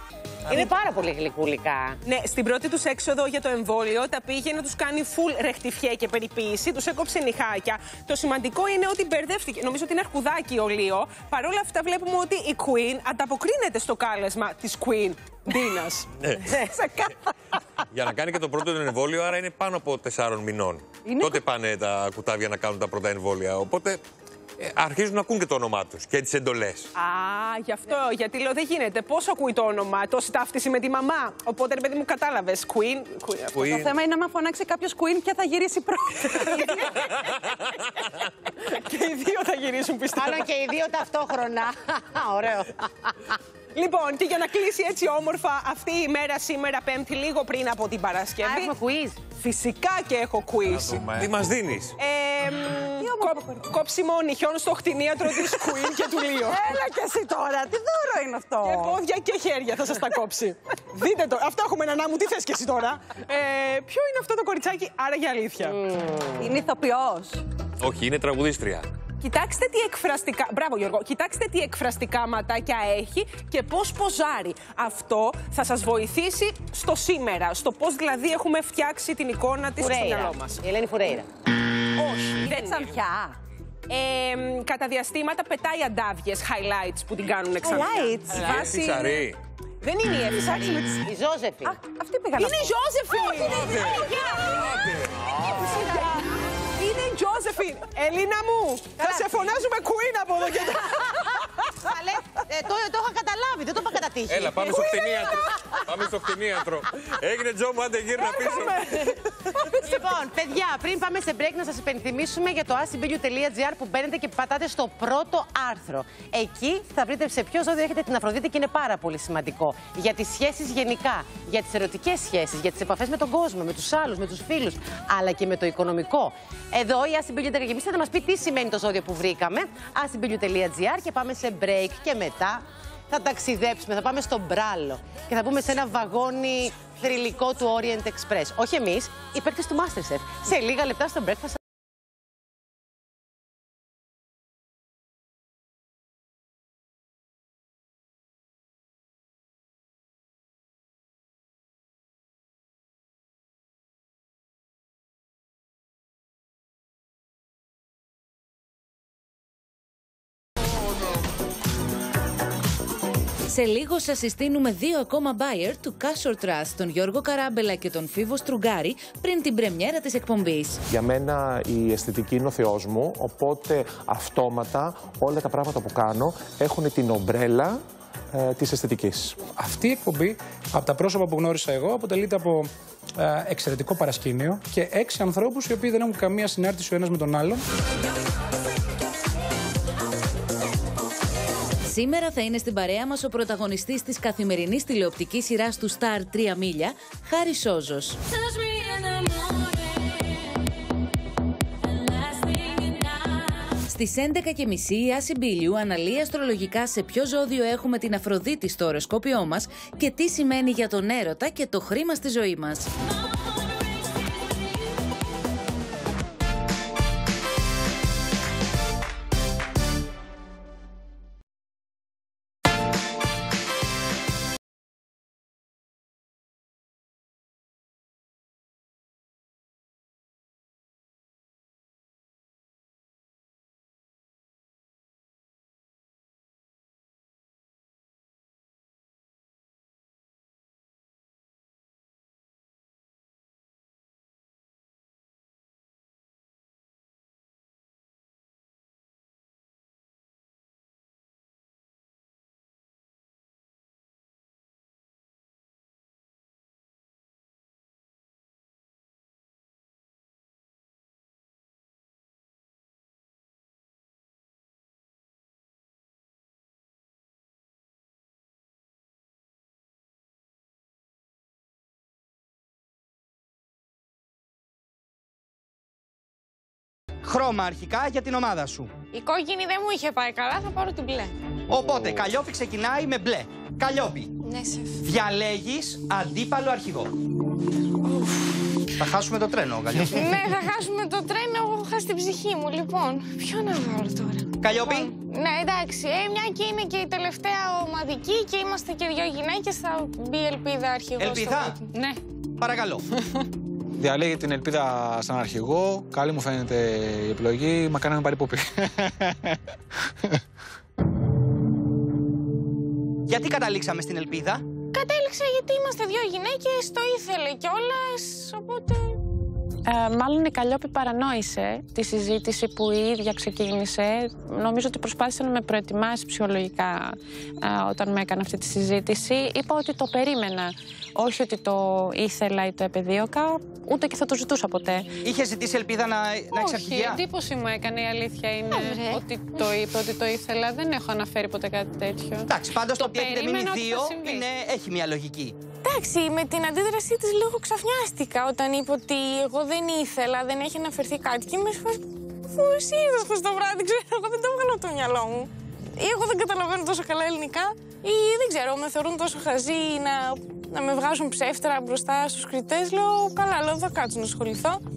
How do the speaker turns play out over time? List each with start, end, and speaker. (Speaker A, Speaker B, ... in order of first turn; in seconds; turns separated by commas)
Speaker A: 0.5-2.0, Speaker B: 2.0-16.1, Speaker C: 16.2-16.5, Speaker B: 16.6-17.1, Speaker C: 17.9-24.0, Speaker D: 21.1-21.4, Speaker C: 24.6-26.9, Speaker B: 26.9-33.7, Speaker C: 33.5-33.9, Speaker D: 33.5-36.6, Speaker B: 36.5-36.8, Speaker B: 38.6-40.5, Speaker A: 40.1-43.1, Speaker B: 43.7-48.7, Speaker A: 48.4-49.2, Speaker B: 49.2-51.0, Speaker C: 51.0-51.9, Speaker B: 52.0-56.7, Speaker D: 53.0-53.7, Speaker D: 56.4-59.0, Speaker B: 58.6-65.8, Speaker A: 65.7-66.5, Speaker D: 66.4-67.4, Speaker C: 67.8-68.9, Speaker B: 69.2-80.6, Speaker A: 79.8-81.3, Speaker D: 82.0-83.3, Speaker B: 82.0-83.0, Speaker B: 83.9-89.3, Speaker D: 87.6-88.4, Speaker C: 88.3-89.4, Speaker B: 89.8-91.1, Speaker A: 91.0-91.8, Speaker D: 91.7-93.5, Speaker B: 92.4-94.8, Speaker C: 93.4-95.1, Speaker B: 95.4-96.2, Speaker B: 96.8-101.2, Speaker A: 101.8-105.2, Speaker C: 104.3-109.1, Speaker B: 108.2-108.8, Speaker B: 109.7-110.0, Speaker A: 109.8-141.6, Speaker E: 163.5-170.8, Speaker F: 170.9-177.8, Speaker F: 178.3-179.4, Speaker G: 179.5-187.6, Speaker E: 191.8-198.2, Speaker E: 203.8-212.9, Speaker H: 277.2-278.9, Speaker I: 279.1-281.4, Speaker H: 281.7-284.3, Speaker I: 284.4-285.0, Speaker H: 285.0-287.1, Speaker H: 288.9-290.4, Speaker I: 290.1-302.2, Speaker H: 294.6-295.1, Speaker H: 301.2-301.9, Speaker H: 302.6-303.0, Speaker J: 304.0-308.7, Speaker H: 313.2-314.6, Speaker I: 314.9-319.2, Speaker I: 320.7-321.1, Speaker I: 321.9-323.9, Speaker K: 324.5-327.0, Speaker K: 327.7-335.0, Speaker H: 335.2-337.2, Speaker K: 336.5-344.4, Speaker D: 338.7-339.2, Speaker H: 342.5-345.5, Speaker I: 345.8-364.8